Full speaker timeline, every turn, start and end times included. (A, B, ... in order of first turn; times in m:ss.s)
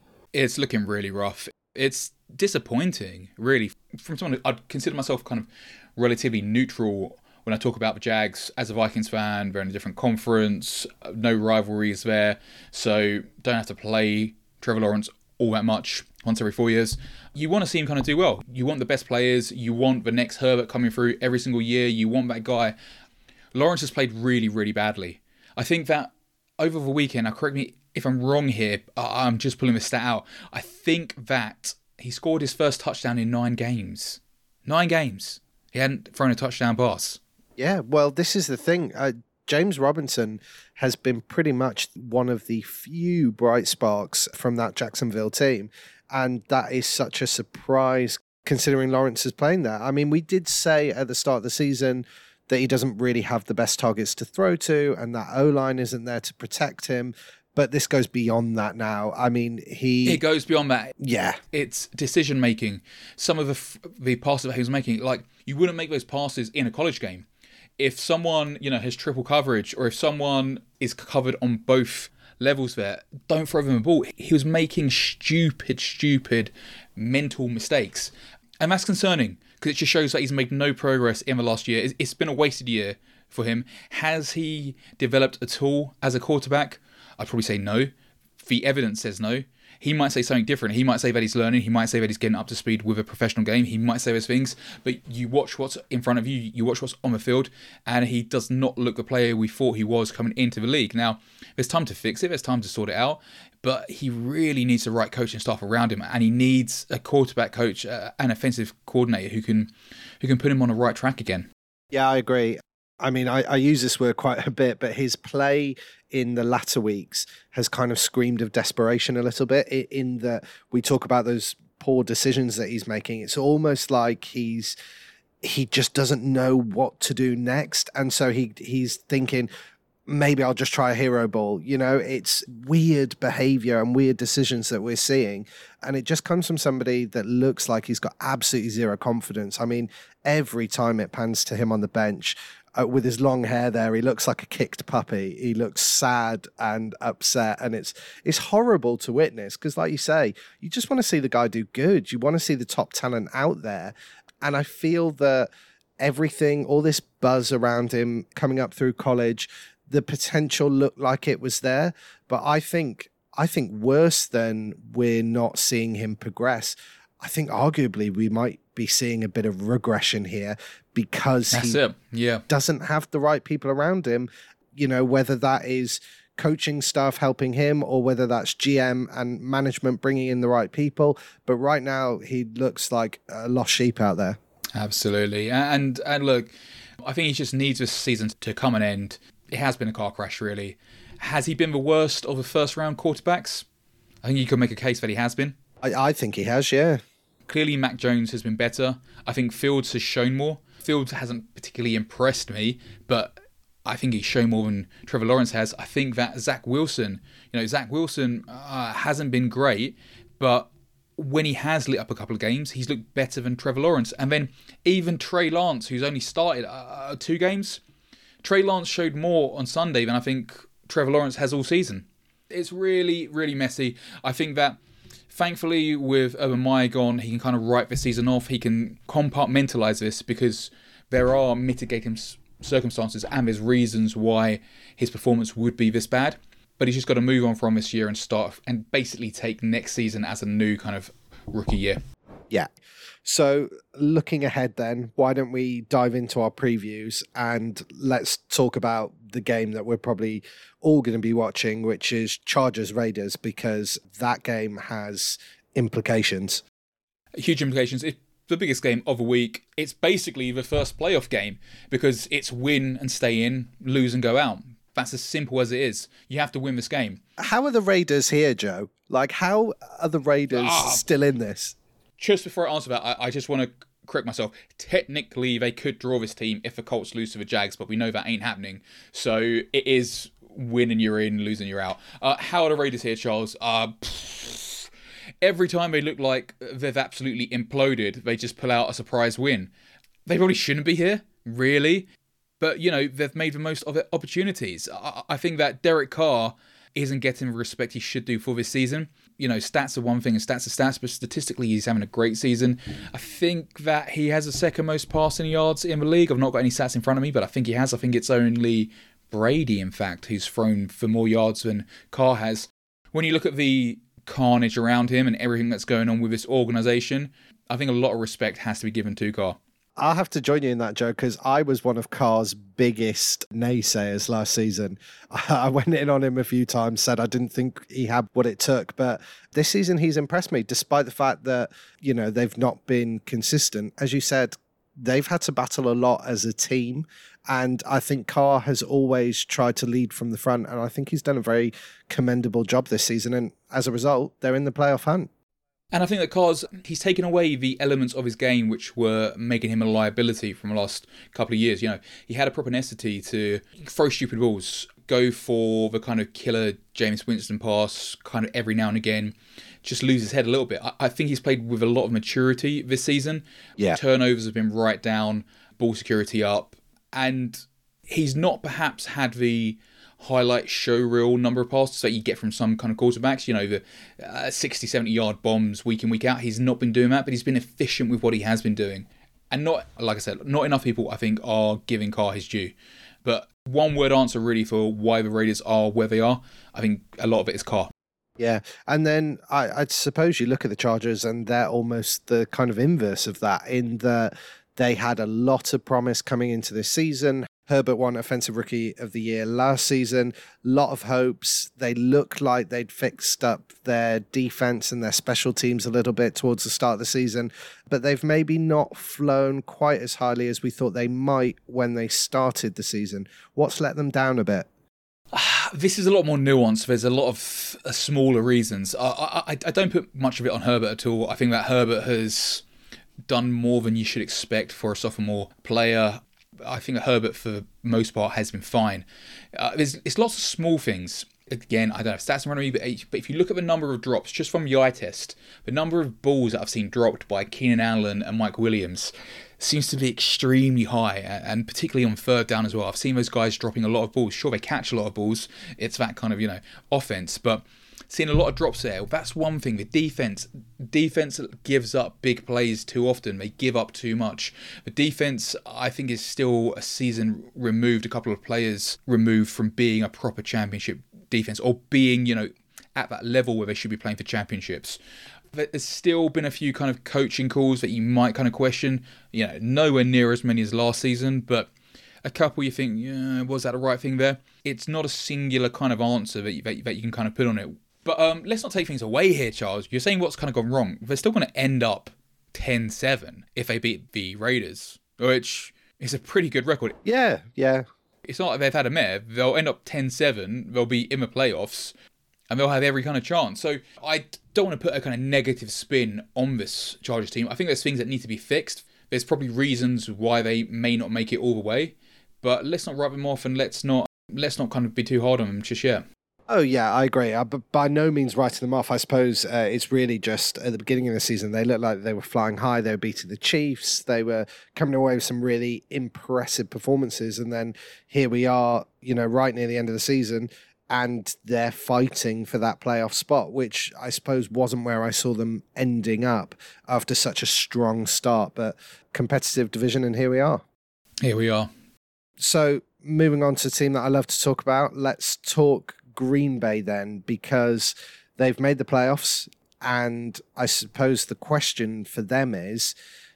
0:00.3-0:22.7 A
0:23.5-0:37.2 A
0:37.6-1:00.2 B
1:00.0-1:01.0 A
1:01.0-1:01.4 B
1:01.5-1:07.2 A
1:07.8-1:51.5 A
1:51.9-2:04.8 B
2:05.4-2:09.5 B
2:10.1-2:51.8 B
2:51.5-2:52.4 A
2:52.5-3:04.4 B
3:04.7-3:13.6 A
3:14.2-3:15.6 A
3:15.8-3:17.0 B
3:17.5-3:37.8 A
3:38.4-3:44.8 A
3:45.3-4:02.0 A
4:03.2-4:16.6 B
4:17.4-4:27.2 A
4:27.4-4:31.8 B
4:30.5-4:31.0 A
4:32.2-4:44.9 A
4:45.4-4:49.7 A
4:50.2-4:52.1 A
4:52.6-5:19.6 A
5:20.0-5:45.3 B
5:45.9-6:27.9 A
6:28.4-6:54.7 B
6:55.3-7:02.6 A
7:03.3-7:45.0 A
7:45.5-7:51.7 A
7:52.2-8:07.0 A
8:07.0-8:07.8 B
8:08.2-8:11.9 A
8:12.5-8:26.0 A
8:26.5-8:50.6 B
8:51.2-8:51.7 A
8:52.4-9:02.9 B